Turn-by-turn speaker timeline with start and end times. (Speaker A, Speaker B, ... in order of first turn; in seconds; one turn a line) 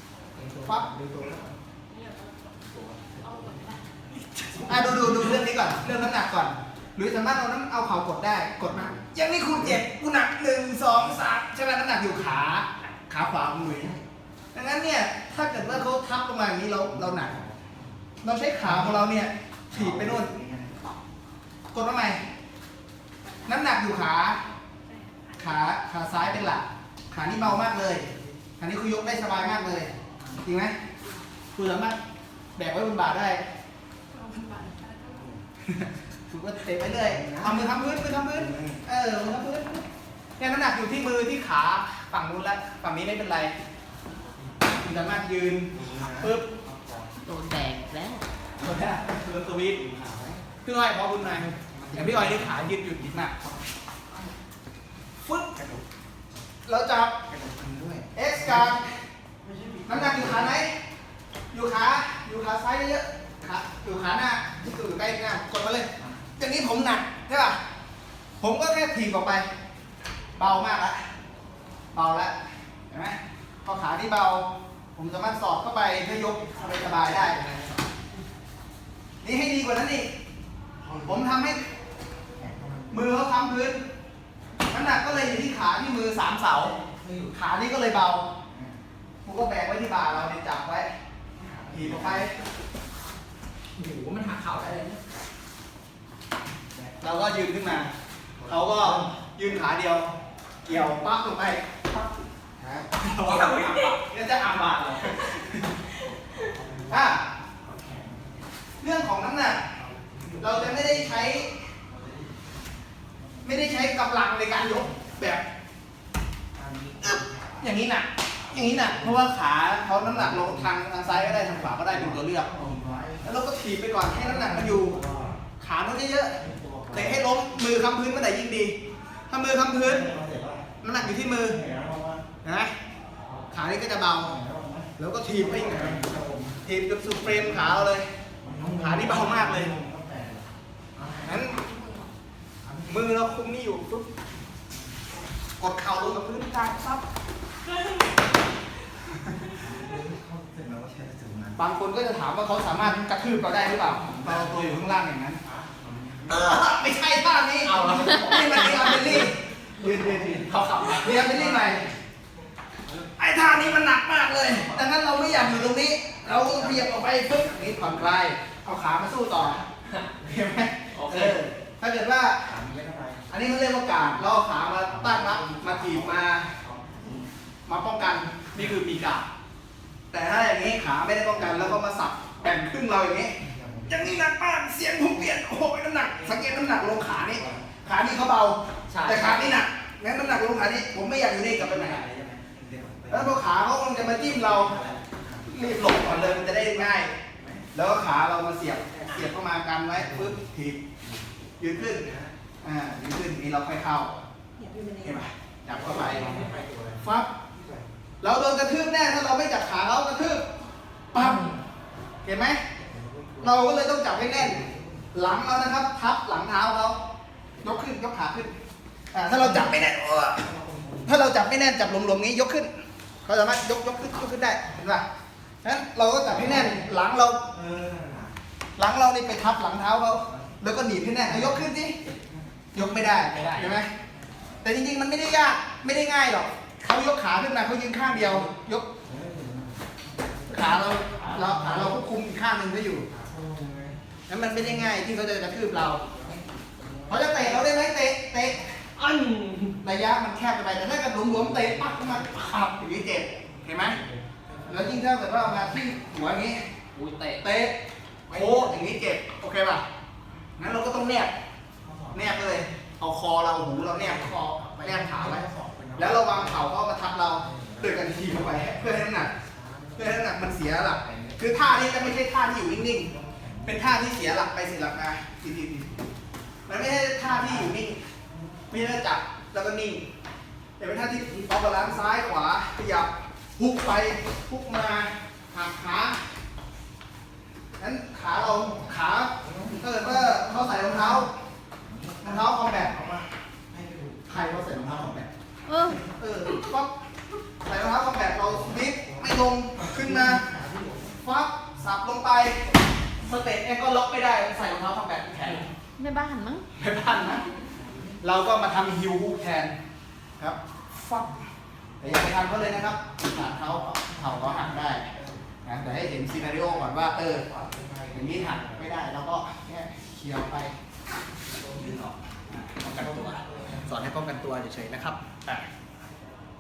Speaker A: 0.3-1.5
Speaker B: 0.6-0.9
Speaker C: 1.9-2.5
Speaker A: 2.7-5.4
Speaker C: 3.2-4.0
Speaker B: 4.6-14.0
Speaker B: 14.5-17.4
Speaker A: 16.9-17.8
Speaker B: 18.2-20.3
Speaker A: 18.6-19.0
Speaker A: 19.7-20.8
Speaker B: 21.7-22.2
Speaker B: 23.5-24.4
Speaker C: 24.9-25.6
Speaker B: 25.4-28.1
Speaker B: 28.6-30.8
Speaker B: 31.6-32.0
Speaker B: 32.6-33.5
Speaker C: 34.1-35.2
Speaker A: 35.1-35.4
Speaker B: 35.6-39.9
Speaker A: 37.0-38.8
Speaker B: 40.4-43.5
Speaker B: 44.8-46.5
Speaker A: 45.7-47.1
Speaker D: 47.2-48.3
Speaker B: 48.6-49.8
Speaker A: 49.8-50.5
Speaker B: 50.6-53.4
Speaker A: 51.6-52.7
Speaker B: 55.2-55.5
Speaker A: 55.5-55.8
Speaker B: 56.7-57.2
Speaker A: 57.3-58.8
Speaker B: 58.1-58.9
Speaker A: 59.4-60.6
Speaker B: 59.9-60.8
Speaker B: 61.5-67.6
Speaker B: 68.4-69.5
Speaker B: 70.4-71.0
Speaker B: 71.9-77.4
Speaker A: 76.5-77.8
Speaker B: 79.2-80.1
Speaker A: 80.8-81.2
Speaker B: 81.0-81.7
Speaker A: 82.4-83.0
Speaker B: 82.9-83.8
Speaker B: 84.7-86.8
Speaker A: 86.8-87.3
Speaker B: 87.3-88.3
Speaker B: 89.2-90.9
Speaker A: 91.4-92.3
Speaker B: 91.7-92.3
Speaker D: 93.8-95.0
Speaker B: 97.0-97.9
Speaker A: 98.4-99.1
Speaker B: 98.4-100.1
Speaker B: 100.7-101.8
Speaker A: 102.6-102.9
Speaker B: 103.0-105.8
Speaker D: 103.3-103.9
Speaker A: 106.6-106.9
Speaker B: 106.9-107.2
Speaker A: 107.6-108.2
Speaker B: 108.8-109.7
Speaker A: 109.8-111.3
Speaker B: 110.4-111.5
Speaker A: 111.9-112.4
Speaker B: 113.4-115.5
Speaker A: 116.5-117.6
Speaker B: 117.0-122.5
Speaker A: 118.5-119.2
Speaker A: 120.0-123.3
Speaker B: 123.2-125.0
Speaker A: 124.1-125.4
Speaker B: 125.6-128.8
Speaker A: 126.4-127.3
Speaker B: 129.3-130.1
Speaker A: 129.8-130.8
Speaker B: 130.8-131.6
Speaker A: 131.5-132.3
Speaker B: 132.4-132.7
Speaker B: 133.5-134.4
Speaker A: 134.2-136.6
Speaker B: 135.0-136.0
Speaker B: 136.6-138.1
Speaker A: 137.2-137.8
Speaker A: 138.4-141.4
Speaker B: 138.7-139.7
Speaker B: 141.2-141.7
Speaker A: 142.6-142.9
Speaker B: 142.9-144.1
Speaker B: 145.6-147.0
Speaker A: 149.6-151.6
Speaker B: 151.6-155.4
Speaker A: 154.0-154.8
Speaker A: 155.5-156.5
Speaker B: 156.3-161.9
Speaker D: 157.7-159.3
Speaker A: 159.8-160.5
Speaker D: 160.3-161.7
Speaker A: 161.5-161.9
Speaker B: 163.2-169.6
Speaker A: 164.5-166.9
Speaker A: 167.7-168.1
Speaker B: 170.2-172.6
Speaker D: 170.9-171.4
Speaker A: 172.5-173.3
Speaker B: 173.3-176.5
Speaker A: 174.9-177.3
Speaker B: 177.7-179.3
Speaker B: 180.1-183.3
Speaker A: 183.4-184.1
Speaker B: 183.9-192.1
Speaker A: 187.3-187.7
Speaker D: 188.9-189.6
Speaker A: 191.4-193.4
Speaker B: 193.1-194.8
Speaker A: 193.9-195.7
Speaker B: 195.5-197.2
Speaker A: 197.4-197.7
Speaker B: 197.7-200.8
Speaker A: 199.9-200.3
Speaker B: 201.6-202.1
Speaker A: 201.8-202.3
Speaker B: 202.6-204.2
Speaker A: 204.6-207.9
Speaker B: 205.0-206.4
Speaker B: 207.0-207.3
Speaker B: 208.2-210.5
Speaker B: 211.1-211.5
Speaker B: 212.2-212.6
Speaker A: 212.8-215.2
Speaker B: 213.4-217.0
Speaker B: 217.6-218.5
Speaker B: 219.1-220.5
Speaker A: 219.4-219.7
Speaker A: 220.5-221.2
Speaker B: 221.1-222.7
Speaker B: 223.2-225.1
Speaker B: 225.6-227.4
Speaker A: 226.3-226.9
Speaker A: 227.5-228.3
Speaker B: 228.8-232.0
Speaker A: 231.3-231.6
Speaker B: 232.7-233.9
Speaker D: 233.1-233.8
Speaker B: 234.6-238.9
Speaker A: 239.1-242.0
Speaker B: 240.5-243.1
Speaker A: 243.1-244.0
Speaker B: 244.3-246.0
Speaker A: 244.6-245.0
Speaker A: 246.0-247.7
Speaker B: 247.1-248.7
Speaker D: 249.2-249.6
Speaker B: 249.8-254.0
Speaker A: 251.5-252.1
Speaker A: 253.9-254.9
Speaker B: 254.7-256.6
Speaker D: 256.9-257.4
Speaker B: 257.4-257.8
Speaker A: 258.3-258.8
Speaker B: 258.3-259.8
Speaker B: 260.6-261.3
Speaker A: 261.8-262.6
Speaker B: 262.1-265.4
Speaker A: 263.7-266.7
Speaker B: 266.0-269.3
Speaker A: 267.4-268.7
Speaker A: 269.4-272.0
Speaker B: 270.0-273.1
Speaker A: 272.9-273.9
Speaker B: 273.6-276.0
Speaker B: 276.7-278.0
Speaker A: 277.2-277.7
Speaker A: 278.3-278.7
Speaker B: 278.7-280.1
Speaker B: 280.8-286.2
Speaker B: 287.8-291.3
Speaker A: 289.4-291.3
Speaker A: 291.9-295.2
Speaker B: 292.2-293.0
Speaker B: 294.3-295.3
Speaker D: 295.7-296.0
Speaker B: 296.2-296.9
Speaker B: 297.6-300.5
Speaker A: 298.5-301.2
Speaker B: 301.2-302.6
Speaker B: 303.2-305.7
Speaker D: 306.0-306.7
Speaker B: 306.7-307.4
Speaker A: 307.8-308.2
Speaker B: 308.2-309.8
Speaker B: 310.4-311.3
Speaker B: 312.0-315.1
Speaker A: 312.0-315.4
Speaker B: 315.6-317.4
Speaker A: 316.1-318.9
Speaker B: 318.1-320.8
Speaker A: 321.6-322.1
Speaker B: 321.8-325.7
Speaker A: 322.8-323.9